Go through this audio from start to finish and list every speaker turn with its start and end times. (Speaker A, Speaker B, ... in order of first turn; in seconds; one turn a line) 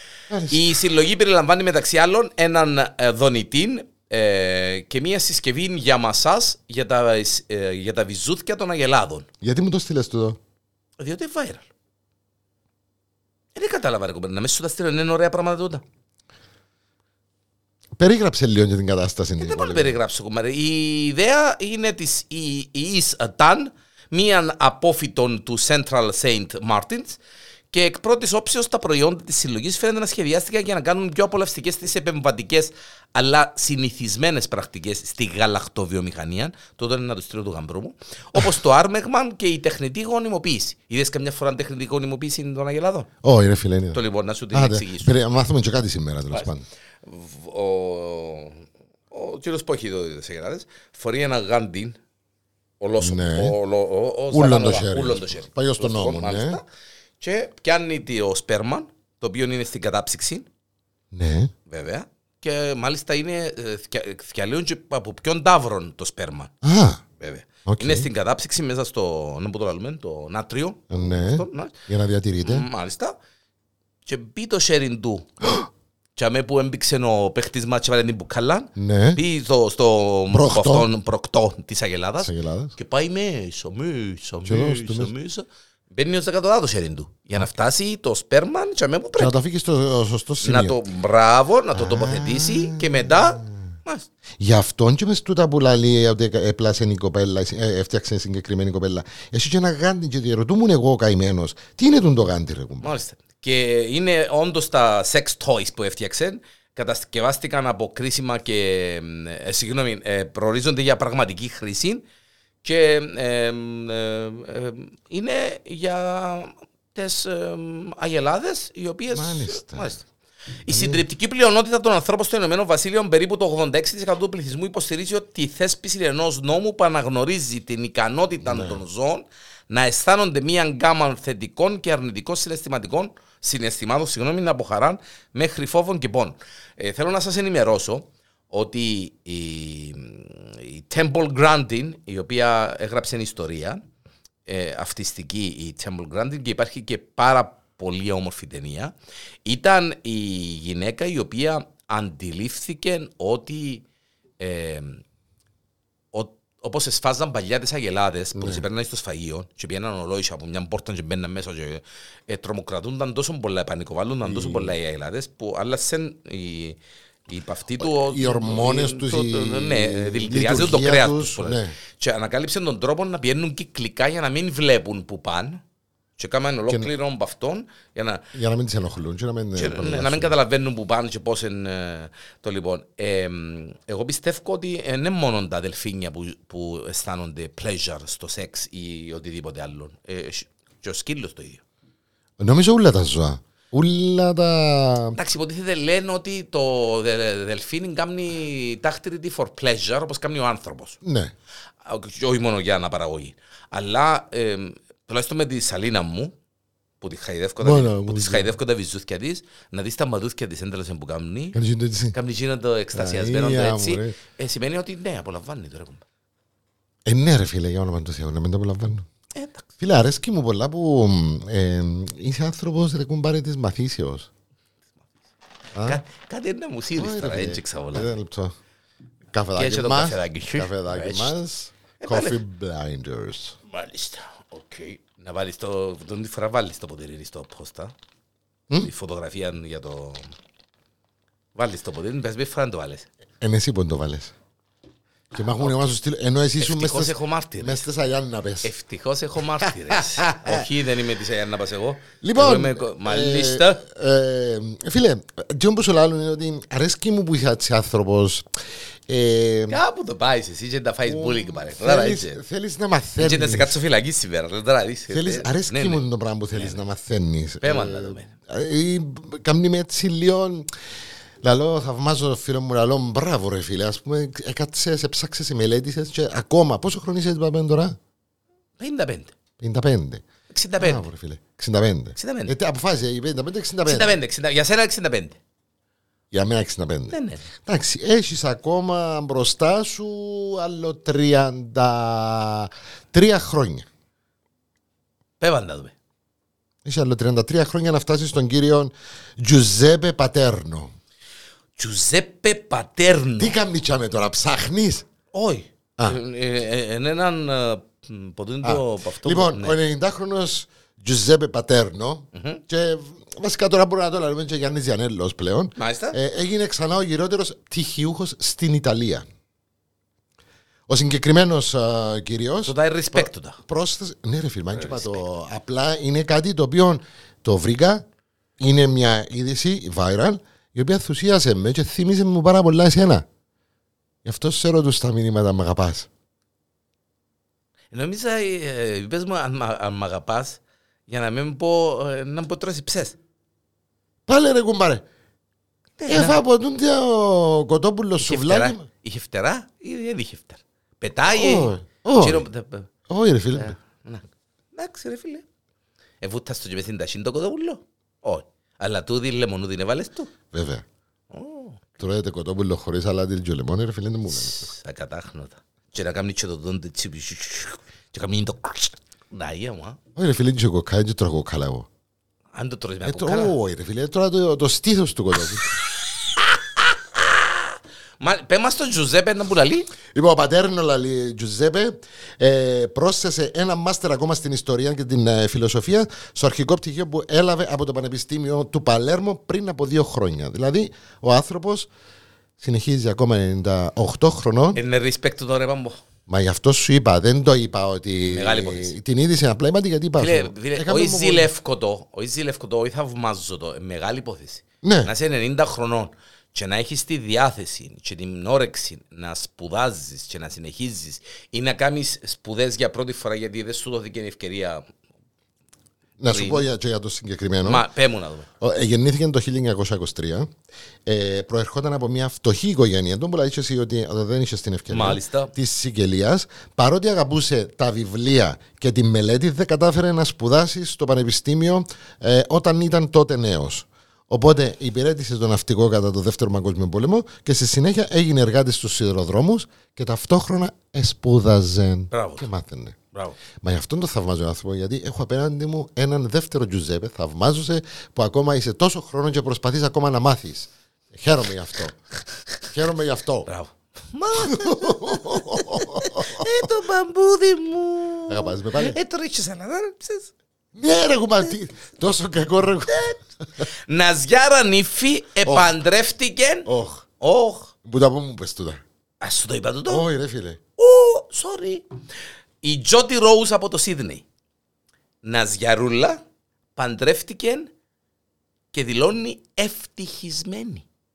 Speaker A: 0.3-0.9
Speaker B: 0.5-9.3
Speaker A: 9.4-10.4
Speaker B: 11.0-11.7
Speaker B: 13.5-15.8
Speaker A: 18.0-20.0
Speaker B: 19.4-27.2
Speaker B: 27.7-43.1
Speaker A: 43.2-44.0
Speaker B: 43.9-45.1
Speaker A: 44.5-46.6
Speaker B: 47.0-52.0
Speaker B: 52.8-56.6
Speaker A: 53.0-53.5
Speaker A: 54.3-56.6
Speaker B: 57.2-60.5
Speaker A: 61.1-61.5
Speaker B: 61.7-66.5
Speaker A: 66.6-67.0
Speaker B: 67.2-71.7
Speaker A: 67.7-68.1
Speaker A: 70.9-72.7
Speaker B: 72.4-73.2
Speaker B: 74.0-75.3
Speaker B: 76.2-89.3
Speaker A: 78.8-79.2
Speaker A: 80.3-80.9
Speaker A: 82.2-82.7
Speaker A: 84.5-85.1
Speaker A: 89.2-90.8
Speaker B: 90.4-94.1
Speaker A: 91.7-93.6
Speaker A: 94.4-102.9
Speaker B: 102.8-112.0
Speaker B: 112.6-120.0
Speaker A: 119.1-119.9
Speaker B: 120.7-143.8
Speaker A: 120.7-121.0
Speaker A: 128.4-128.8
Speaker B: 144.5-148.9
Speaker B: 149.4-153.8
Speaker B: 154.4-155.0
Speaker B: 156.1-166.8
Speaker A: 158.3-158.6
Speaker A: 164.2-164.7
Speaker B: 167.3-175.6
Speaker A: 167.8-171.8
Speaker B: 176.2-178.2
Speaker A: 178.3-180.3
Speaker B: 179.6-191.6
Speaker A: 192.4-195.2
Speaker B: 195.1-201.0
Speaker A: 201.0-201.3
Speaker B: 201.8-206.3
Speaker B: 207.0-211.6
Speaker A: 207.6-208.5
Speaker A: 211.5-212.2
Speaker B: 212.1-216.0
Speaker A: 212.9-214.2
Speaker A: 217.1-219.1
Speaker B: 219.3-219.7
Speaker A: 219.8-224.3
Speaker A: 225.7-226.0
Speaker B: 225.8-228.1
Speaker A: 226.9-228.5
Speaker A: 229.3-233.6
Speaker B: 229.6-231.3
Speaker B: 232.0-232.4
Speaker B: 233.7-237.9
Speaker B: 238.8-240.3
Speaker B: 241.5-243.1
Speaker A: 243.4-244.3
Speaker A: 245.3-248.7
Speaker B: 246.6-247.8
Speaker B: 248.6-253.8
Speaker A: 249.6-250.7
Speaker A: 252.2-258.5
Speaker A: 259.1-259.8
Speaker B: 259.7-262.4
Speaker A: 261.1-263.8
Speaker B: 263.2-266.8
Speaker A: 265.1-270.7
Speaker B: 267.6-268.3
Speaker A: 271.4-277.9
Speaker B: 278.8-279.3
Speaker A: 279.6-280.2
Speaker B: 280.5-281.1
Speaker A: 280.8-284.2
Speaker B: 282.2-282.5
Speaker B: 283.8-285.4
Speaker A: 286.3-293.9
Speaker B: 287.1-287.4
Speaker B: 295.4-295.9
Speaker A: 296.8-300.9
Speaker B: 301.8-303.6
Speaker A: 303.4-305.1
Speaker B: 305.3-309.8
Speaker A: 308.6-319.2
Speaker B: 312.3-312.6
Speaker B: 315.8-316.2
Speaker A: 320.9-328.0
Speaker B: 322.6-323.6
Speaker B: 324.7-325.2
Speaker A: 328.6-333.2
Speaker A: 334.2-336.1
Speaker B: 337.9-343.2
Speaker A: 344.3-345.0
Speaker B: 346.0-346.4
Speaker A: 346.1-348.8
Speaker B: 348.2-352.9
Speaker A: 351.3-352.5
Speaker A: 353.1-353.8
Speaker B: 353.5-355.4
Speaker B: 356.2-360.3
Speaker A: 360.5-360.8
Speaker B: 361.3-362.0
Speaker A: 362.0-364.7
Speaker B: 364.3-370.0
Speaker A: 370.1-371.9
Speaker B: 372.5-373.5
Speaker A: 373.0-375.8
Speaker B: 377.1-379.9
Speaker A: 380.1-391.9
Speaker A: 392.6-394.8
Speaker B: 394.7-396.0
Speaker A: 396.3-401.5
Speaker B: 398.3-398.9
Speaker B: 400.2-414.8
Speaker A: 404.8-405.1
Speaker A: 416.2-417.8
Speaker B: 416.3-416.6
Speaker B: 417.6-418.5
Speaker A: 418.6-420.5
Speaker A: 421.1-443.0
Speaker B: 424.9-425.5
Speaker B: 442.1-442.5
Speaker A: 443.6-452.0
Speaker A: 452.7-453.5
Speaker B: 453.5-460.3
Speaker A: 454.3-456.7
Speaker A: 458.3-459.0
Speaker A: 460.7-463.1
Speaker B: 462.9-466.7
Speaker A: 465.4-465.7
Speaker A: 466.6-467.0
Speaker B: 467.2-467.7
Speaker A: 467.8-468.8
Speaker B: 469.2-470.1
Speaker A: 469.9-470.6
Speaker B: 470.8-471.8
Speaker B: 472.6-474.2
Speaker B: 475.2-476.2
Speaker B: 476.8-477.7
Speaker B: 478.7-480.8